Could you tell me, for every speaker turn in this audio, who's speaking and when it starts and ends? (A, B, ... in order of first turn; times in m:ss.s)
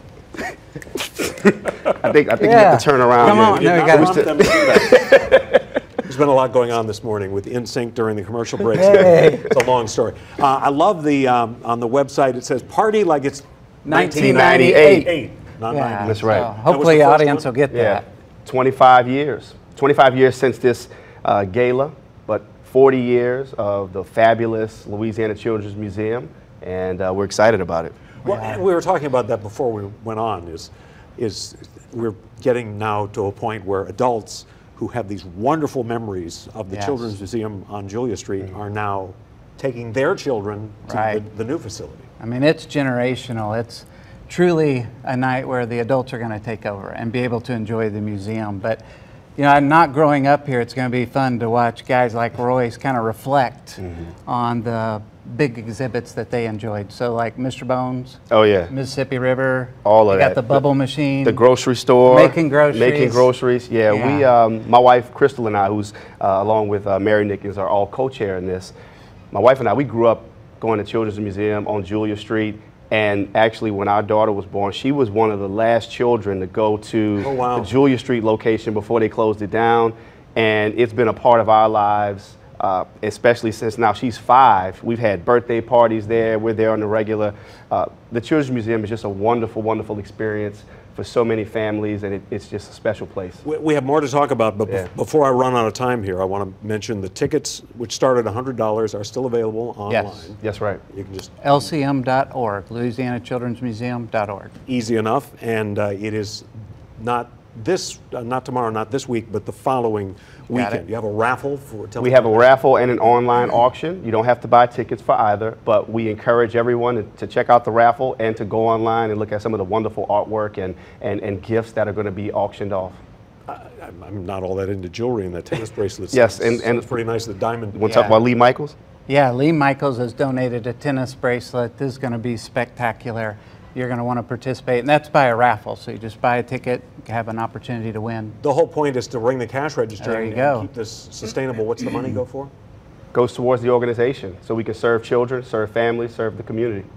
0:01.2-0:05.5 A
0:02.4-0:04.9 B
0:03.2-0:05.4 C
0:06.0-0:17.5 C
0:08.8-0:09.5 B
0:13.8-0:15.1 B
0:14.1-0:15.1 A
0:15.7-0:18.0 B
0:16.0-0:16.5 A
0:17.7-0:27.9 A
0:28.2-0:42.1 C
0:28.2-0:28.6 B
0:36.7-0:37.0 B
0:40.9-0:41.2 B
0:42.2-0:48.8 B
0:49.4-0:58.2 B
0:53.8-0:54.1 A
0:58.3-0:58.7 A
0:58.7-1:01.4 B
0:59.8-1:00.6 A
1:01.2-1:08.7 A
1:02.0-1:03.3 B
1:03.9-1:04.3 B
1:09.3-1:33.4 A
1:17.2-1:17.7 C
1:33.4-1:40.4 C
1:39.9-1:40.3 B
1:40.4-1:40.8 A
1:40.9-1:41.7 C
1:41.4-1:44.5 B
1:44.7-1:52.5 C
1:50.5-1:50.8 B
1:52.0-2:03.0 A
2:03.5-2:07.8 C
2:06.1-2:06.9 A
2:07.7-2:08.7 A
2:07.8-2:08.2 B
2:09.1-2:18.4 B
2:18.4-2:22.5 C
2:20.0-2:20.7 B
2:23.1-2:26.9 A